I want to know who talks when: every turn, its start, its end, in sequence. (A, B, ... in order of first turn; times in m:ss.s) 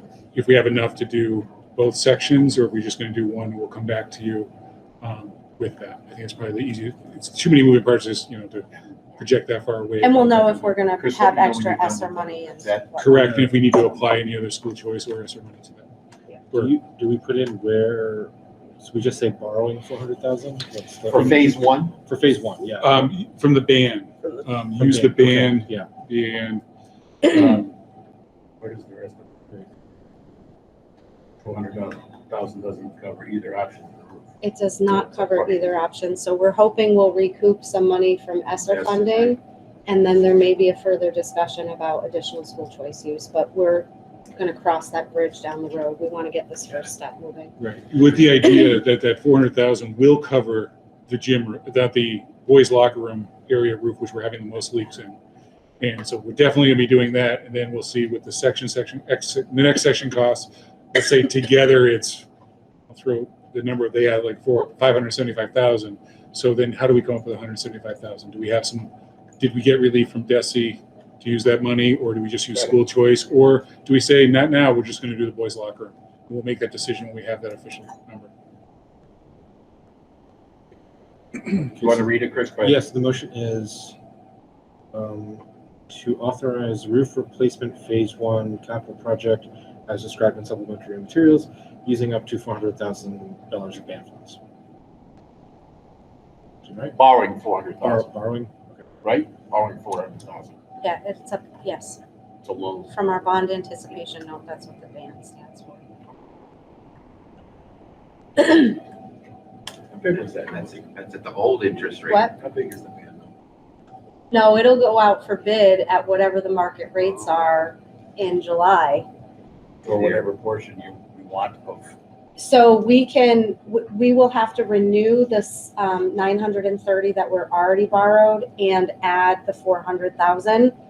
0:00.3-0:10.8 A
0:10.0-0:13.2 B
0:11.0-0:12.9 C
0:13.0-0:15.9 A
0:16.5-0:23.1 D
0:21.1-0:22.0 C
0:22.8-0:26.6 A
0:24.8-0:25.9 D
0:27.2-0:27.7 A
0:28.6-0:29.2 E
0:31.4-0:34.3 E
0:34.4-0:47.5 B
0:35.1-0:35.6 E
0:38.7-0:39.0 E
0:47.6-0:55.2 A
0:55.8-1:02.2 A
1:02.9-1:18.3 A
1:21.5-1:22.8 C
1:21.8-1:22.1 D
1:22.6-1:24.0 D
1:24.9-1:34.4 D
1:36.6-1:37.0 D
1:37.0-1:38.1 C
1:37.8-1:38.7 D
1:39.0-1:40.5 C
1:40.8-1:42.0 B
1:42.4-1:42.9 C
1:42.9-1:45.8 B
1:49.9-1:50.8 E
1:50.7-1:52.3 F
1:52.1-1:52.3 B
1:52.4-1:53.3 E
1:54.3-1:59.1 B
1:59.9-2:01.9 E
1:59.9-2:00.3 F
2:02.4-2:10.8 B